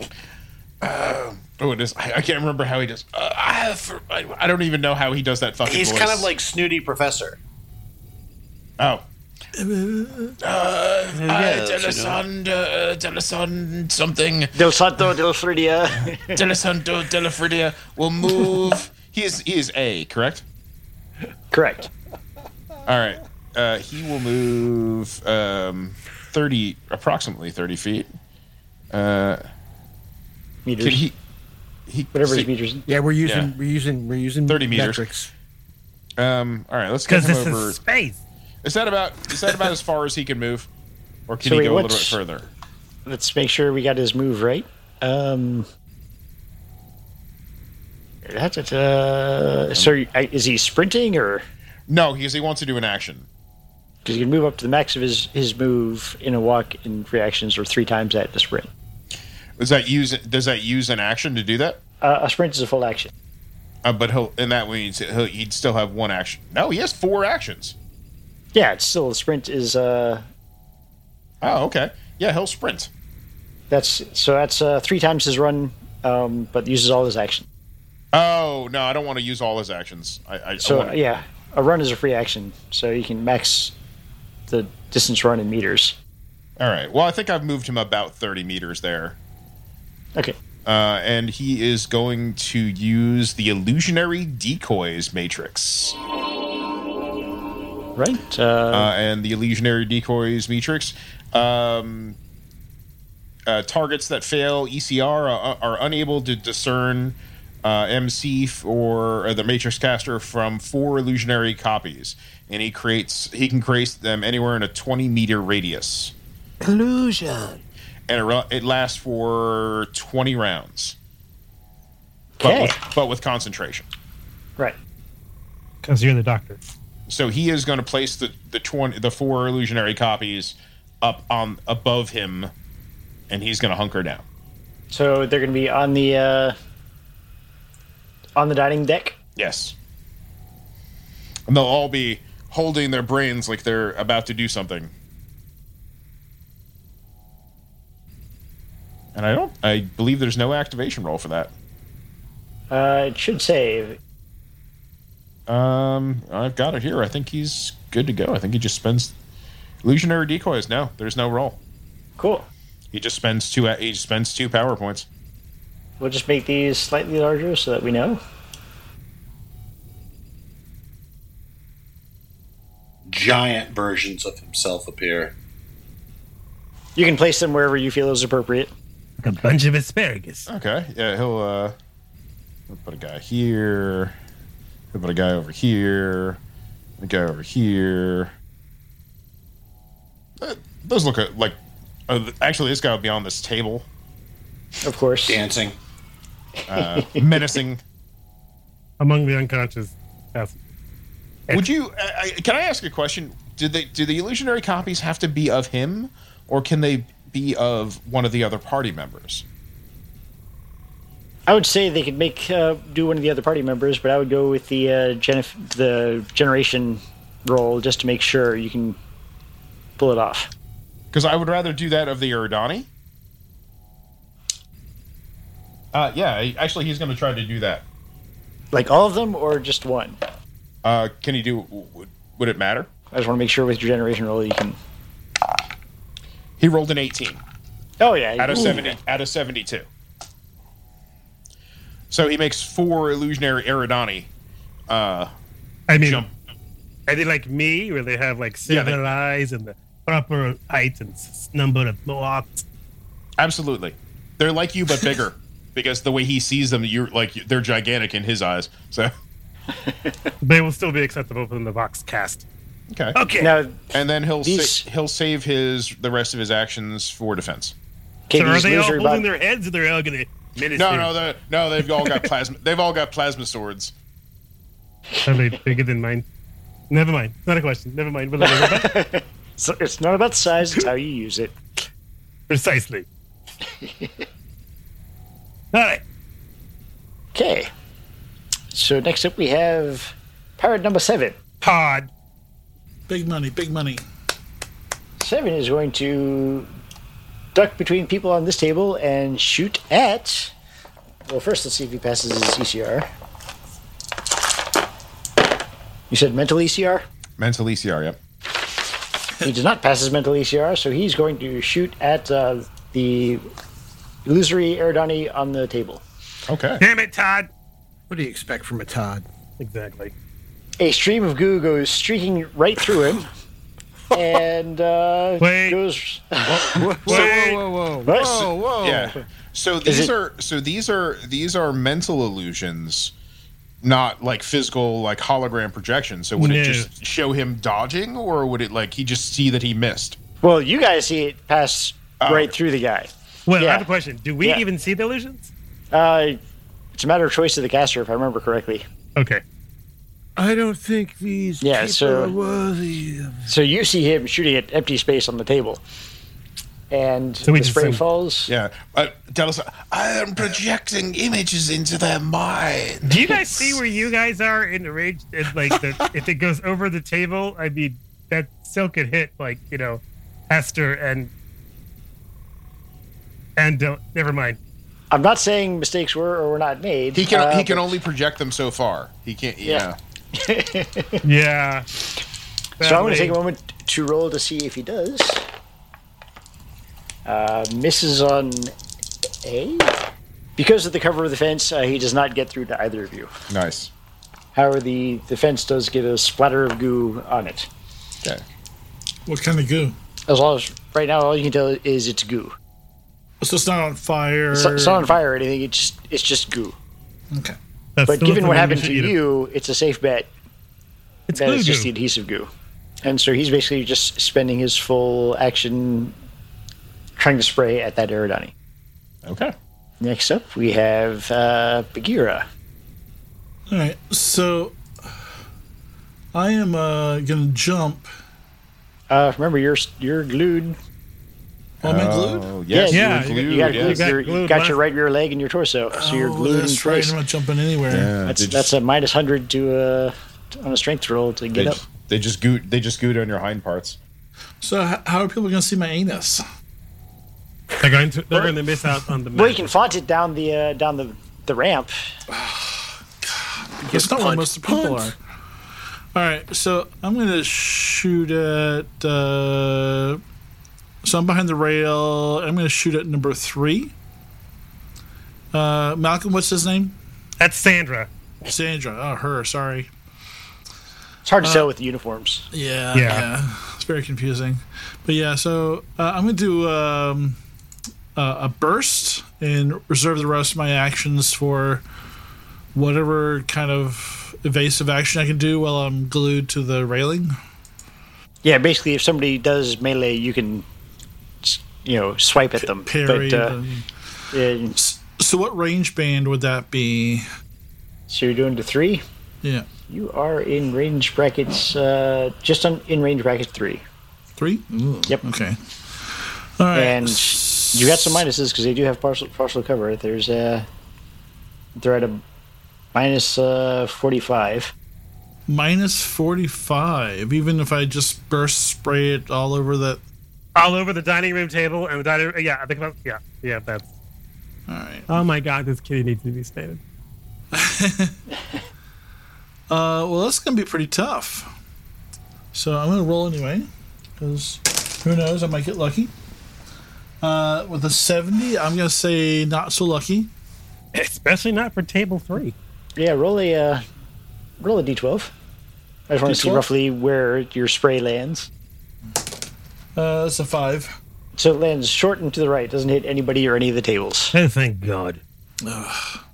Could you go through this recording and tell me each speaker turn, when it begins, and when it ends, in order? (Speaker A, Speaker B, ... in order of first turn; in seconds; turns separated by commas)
Speaker A: 0.8-6.3, Speaker B: 5.6-7.4, Speaker A: 8.8-9.0, Speaker C: 9.6-10.3, Speaker A: 10.4-14.5, Speaker B: 11.1-12.2, Speaker D: 14.5-16.4, Speaker A: 16.3-20.4, Speaker D: 21.5-21.9, Speaker A: 22.9-28.1, Speaker A: 28.9-29.4, Speaker D: 30.6-31.0, Speaker A: 30.8-31.1, Speaker A: 31.9-32.5, Speaker D: 32.1-32.9, Speaker E: 32.9-35.3, Speaker A: 33.2-33.5, Speaker A: 34.5-35.0, Speaker A: 36.2-37.8, Speaker F: 37.1-38.2, Speaker A: 38.6-40.7, Speaker A: 41.3-42.5, Speaker D: 41.4-42.2, Speaker D: 43.0-45.7, Speaker D: 48.2-51.4, Speaker A: 51.9-53.3, Speaker D: 54.0-58.7, Speaker A: 59.6-61.8, Speaker D: 62.0-63.1, Speaker A: 63.8-67.7, Speaker D: 68.5-70.2, Speaker A: 71.4-72.9, Speaker D: 73.7-77.5, Speaker A: 78.1-80.9, Speaker D: 80.6-83.7, Speaker D: 84.5-86.0, Speaker A: 86.6-89.2, Speaker A: 90.7-96.0, Speaker D: 98.0-98.9, Speaker A: 98.7-102.2, Speaker A: 103.5-116.1, Speaker E: 116.6-117.6, Speaker A: 118.1-121.0, Speaker D: 122.4-122.8, Speaker A: 122.4-123.8, Speaker F: 125.8-126.6, Speaker A: 127.1-132.5, Speaker A: 133.3-134.2, Speaker D: 134.9-136.5, Speaker D: 138.3-139.1, Speaker A: 139.4-139.7, Speaker A: 141.5-144.9, Speaker A: 149.1-151.5, Speaker D: 152.7-154.0, Speaker A: 155.5-159.1, Speaker A: 159.8-161.6, Speaker D: 162.2-162.4, Speaker A: 162.9-165.1, Speaker D: 166.0-168.2, Speaker B: 173.1-175.3, Speaker D: 176.9-178.7, Speaker F: 179.2-180.5, Speaker A: 180.5-181.7, Speaker A: 182.7-184.1, Speaker A: 184.9-186.4, Speaker A: 187.0-188.3, Speaker A: 190.4-193.9, Speaker D: 194.8-195.4, Speaker B: 195.3-195.8, Speaker A: 196.7-197.8, Speaker D: 196.7-197.4, Speaker F: 199.0-200.6, Speaker A: 201.5-209.4, Speaker D: 211.5-219.0, Speaker D: 220.0-220.5, Speaker A: 221.1-222.9, Speaker A: 225.9-227.8, Speaker D: 228.7-230.2, Speaker A: 230.8-232.9, Speaker D: 233.1-234.8, Speaker A: 236.6-237.4, Speaker D: 238.0-239.0, Speaker A: 238.4-239.9, Speaker A: 242.1-244.3, Speaker A: 244.9-245.3, Speaker F: 245.9-246.2, Speaker A: 246.0-246.3, Speaker F: 247.1-252.6, Speaker A: 248.7-249.0, Speaker A: 253.4-259.1, Speaker D: 259.9-260.1, Speaker F: 260.4-262.4, Speaker A: 262.9-263.2, Speaker F: 263.1-263.5, Speaker D: 263.4-263.9, Speaker A: 263.9-267.7, Speaker D: 264.4-264.8, Speaker D: 268.3-269.2, Speaker F: 268.3-271.1, Speaker A: 270.8-273.9, Speaker F: 275.2-276.2, Speaker F: 276.9-278.9, Speaker D: 278.4-281.6, Speaker F: 282.5-283.1, Speaker D: 283.8-284.1, Speaker F: 285.7-286.0, Speaker D: 287.3-287.7, Speaker D: 288.7-291.4, Speaker F: 291.6-292.1, Speaker C: 293.1-294.0, Speaker D: 295.2-296.7, Speaker D: 297.5-300.5, Speaker D: 301.3-303.1, Speaker D: 306.1-307.0, Speaker A: 307.4-308.2, Speaker D: 309.4-313.4, Speaker D: 314.2-316.0, Speaker A: 316.5-316.8, Speaker F: 316.8-317.5, Speaker E: 318.1-319.2, Speaker F: 319.6-320.1, Speaker D: 320.8-323.3, Speaker D: 324.1-327.3, Speaker F: 325.4-325.8, Speaker E: 326.5-329.2, Speaker F: 327.1-327.6, Speaker D: 328.1-328.5, Speaker A: 328.8-333.1, Speaker D: 329.9-330.1, Speaker A: 333.8-340.2, Speaker F: 336.4-336.9, Speaker D: 340.4-343.9, Speaker A: 342.2-342.5, Speaker F: 343.5-345.5, Speaker D: 345.9-346.4, Speaker D: 346.9-348.8, Speaker F: 349.1-349.4, Speaker E: 350.4-353.5, Speaker D: 351.6-352.3, Speaker D: 353.5-355.8, Speaker D: 356.9-358.5, Speaker F: 357.5-358.0, Speaker A: 358.5-363.8, Speaker F: 363.0-371.3, Speaker F: 373.6-374.6, Speaker D: 375.1-377.9, Speaker A: 377.1-380.0, Speaker D: 379.6-381.2, Speaker F: 381.2-381.9, Speaker F: 382.8-383.4, Speaker D: 382.8-385.4, Speaker D: 387.2-388.7, Speaker D: 389.4-390.0, Speaker D: 390.6-393.3, Speaker A: 393.5-393.9, Speaker D: 394.5-397.7, Speaker C: 399.2-399.9, Speaker D: 400.3-402.6, Speaker C: 403.4-405.1, Speaker D: 404.5-406.8, Speaker F: 407.9-409.1, Speaker D: 408.1-410.3, Speaker F: 411.3-411.9, Speaker D: 411.3-412.5, Speaker D: 413.0-416.1, Speaker D: 417.2-418.5, Speaker A: 419.2-419.5, Speaker D: 420.0-422.4, Speaker C: 423.7-424.8, Speaker C: 426.3-428.1, Speaker D: 429.1-430.8, Speaker C: 431.8-432.5, Speaker A: 431.8-434.1, Speaker D: 432.7-437.1, Speaker F: 432.9-434.8, Speaker C: 435.9-438.1, Speaker A: 437.9-438.7, Speaker D: 438.2-441.8, Speaker A: 441.5-444.0, Speaker C: 444.6-446.4, Speaker F: 447.8-449.7, Speaker D: 449.3-451.9, Speaker C: 452.3-455.2, Speaker E: 453.8-455.1, Speaker C: 456.1-460.2, Speaker C: 461.0-463.9, Speaker C: 465.5-466.9, Speaker F: 467.4-468.1, Speaker C: 468.4-469.9, Speaker D: 471.2-472.4, Speaker C: 471.4-471.7, Speaker C: 472.5-477.4, Speaker F: 472.9-473.3, Speaker C: 478.1-481.8, Speaker C: 482.7-487.3, Speaker D: 488.4-490.6, Speaker D: 491.4-493.5, Speaker C: 492.6-493.9, Speaker D: 494.3-494.8, Speaker C: 494.8-497.2, Speaker D: 498.1-499.0, Speaker D: 499.9-503.8, Speaker C: 504.4-508.2, Speaker D: 506.7-510.6, Speaker D: 511.8-512.2, Speaker D: 512.9-514.7, Speaker C: 515.5-520.0, Speaker F: 520.5-523.9, Speaker C: 524.7-525.1, Speaker F: 525.1-526.8, Speaker C: 527.5-528.1, Speaker C: 529.7-531.5, Speaker C: 532.5-536.1, Speaker C: 537.2-540.3, Speaker F: 540.9-542.5, Speaker D: 543.0-543.8, Speaker D: 544.6-545.3, Speaker D: 546.1-548.5, Speaker C: 546.2-546.7, Speaker C: 549.9-550.9, Speaker D: 551.4-554.3, Speaker F: 554.3-555.2, Speaker C: 555.6-556.2